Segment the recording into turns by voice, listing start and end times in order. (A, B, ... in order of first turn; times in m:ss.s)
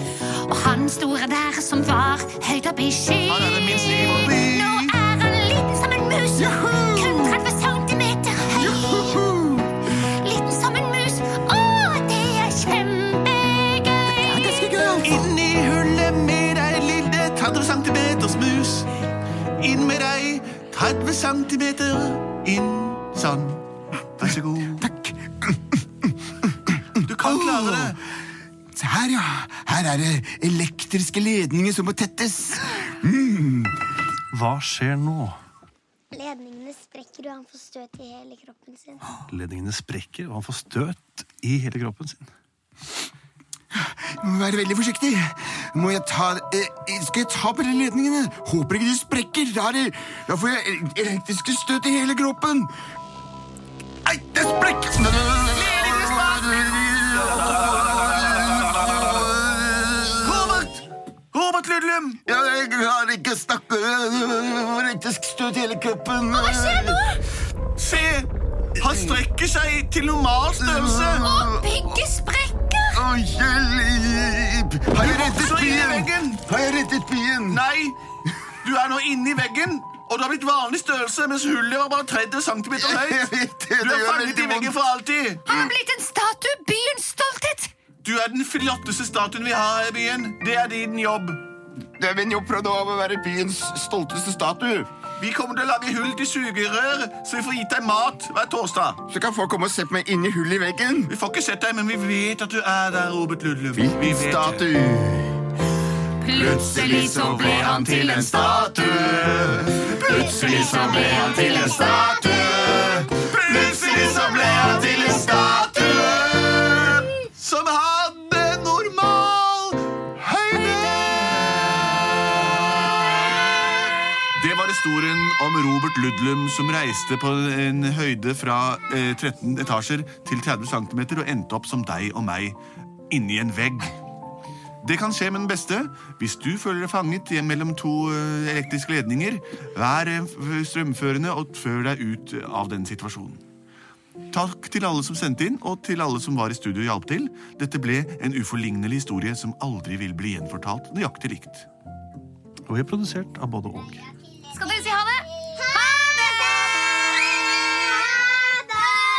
0:00.2-0:09.2 A
0:03.2-0:05.0 B
0:06.3-0:07.4 C
0:08.5-0:09.8 C
0:09.9-0:14.9 A
0:14.0-0:15.3 C
0:15.0-0:18.9 B
0:19.6-0:23.6 B
0:24.2-0:24.9 B
0:24.8-0:28.0 C
0:27.0-0:28.0 B
0:28.7-0:33.7 C
0:34.3-0:35.4 D
0:36.1-0:39.0 E
0:39.3-0:42.3 D
0:43.7-0:52.7 C
0:54.0-1:00.7 C
0:55.5-0:59.0 B
1:00.2-1:02.2 B
1:02.2-1:07.0 C
1:06.3-1:07.2 A
1:07.8-1:11.3 B
1:08.8-1:09.2 C
1:10.6-1:11.7 C
1:11.2-1:13.0 A
1:12.9-1:17.6 C
1:15.0-1:16.4 B
1:17.5-1:18.0 B
1:18.6-1:25.6 B
1:22.7-1:24.7 C
1:25.4-1:27.7 A
1:28.0-1:31.4 B
1:32.0-1:34.9 C
1:35.2-1:39.0 B
1:39.1-1:41.1 C
1:41.1-1:44.7 B
1:43.7-1:45.4 C
1:46.2-1:48.6 A
1:46.2-1:53.0 C
1:47.0-1:51.5 B
1:50.0-1:52.6 A
1:53.1-2:03.4 B
1:53.8-1:54.8 C
1:54.1-1:55.6 A
1:55.3-1:55.7 C
2:00.5-2:01.1 A
2:04.3-2:12.6 B
2:13.1-2:14.0 B
2:14.8-2:23.4 B
2:24.3-2:31.7 B
2:32.7-2:34.1 D
2:34.5-2:36.9 A